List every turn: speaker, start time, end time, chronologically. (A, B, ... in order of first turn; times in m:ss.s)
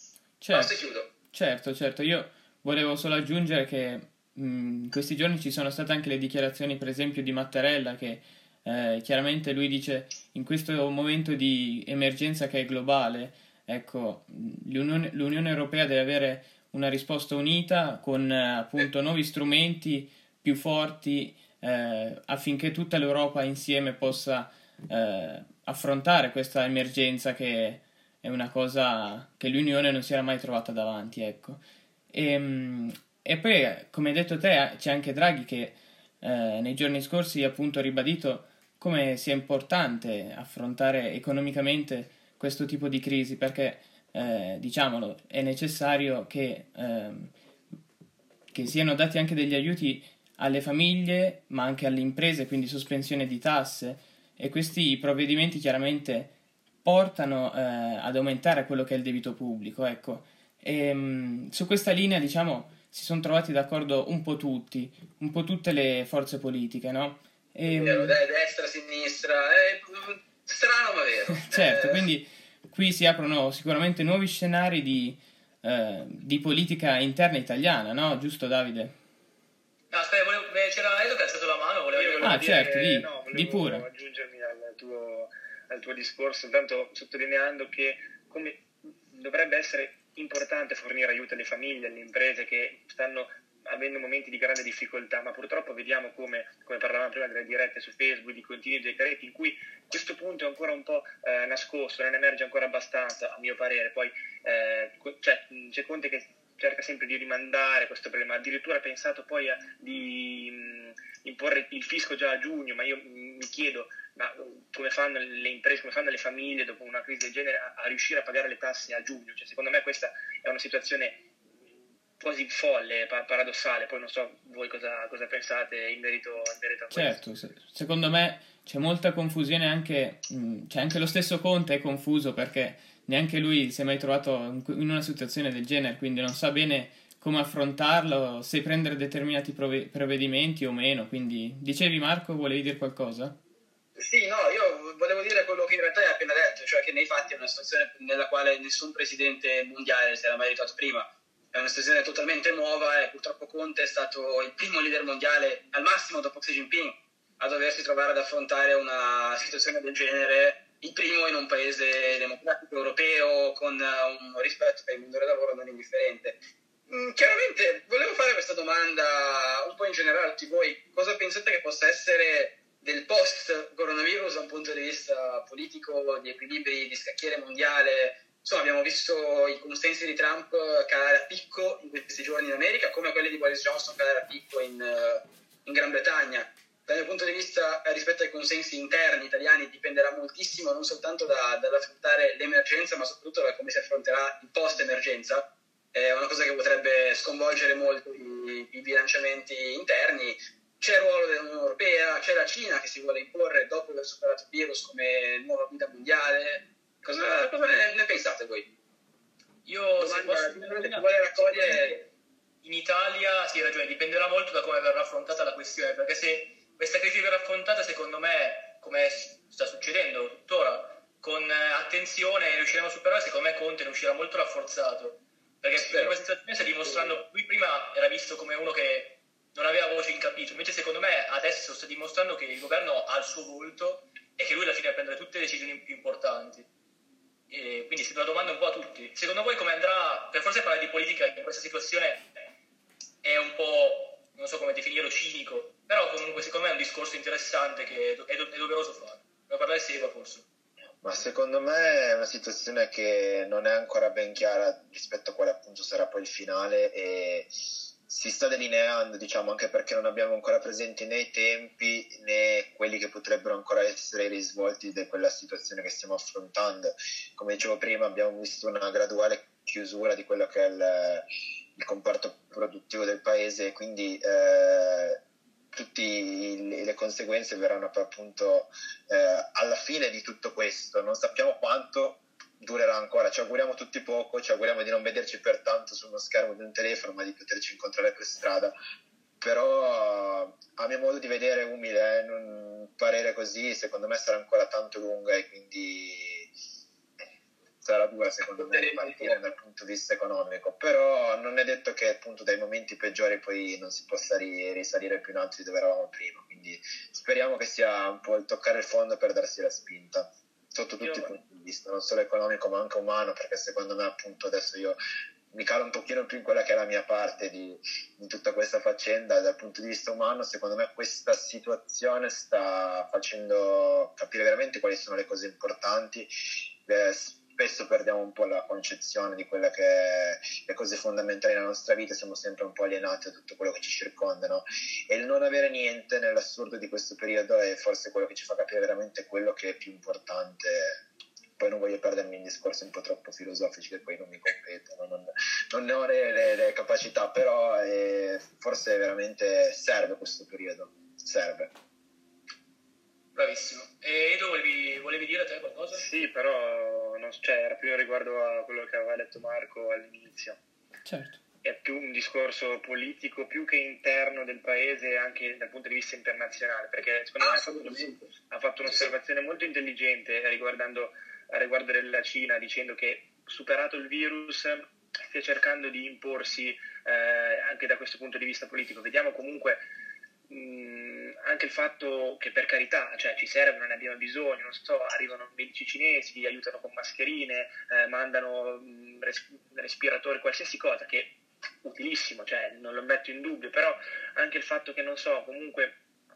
0:00.4-0:47.3 A
0:00.5-0:01.1 B
0:48.5-0:56.3 A
0:56.8-1:08.2 A
1:07.7-1:12.0 B
1:11.4-1:19.0 A
1:19.9-1:22.4 C
1:21.9-2:01.3 D
1:22.2-1:23.8 A
2:02.2-2:07.2 D
2:06.9-2:23.4 A
2:24.0-2:46.4 B
2:46.9-3:28.7 B
3:29.7-3:32.1 C
3:30.0-3:32.0 B
3:32.6-3:56.7 C
3:45.8-3:46.2 B
3:46.9-3:47.1 B
3:57.5-4:02.3 C
4:03.2-4:10.4 C
4:11.0-4:17.5 E
4:18.1-4:35.2 E
4:35.7-4:48.8 E
4:49.4-4:56.5 E
4:57.8-5:15.0 E
4:58.6-4:59.4 B
5:11.0-5:11.3 D
5:15.5-5:26.3 E
5:26.9-5:41.0 E
5:41.6-5:51.7 E
5:53.4-5:56.0 C
5:56.0-6:00.6 D
6:01.0-6:01.4 A
6:01.6-6:19.8 D
6:07.4-6:08.3 B
6:20.5-6:36.0 D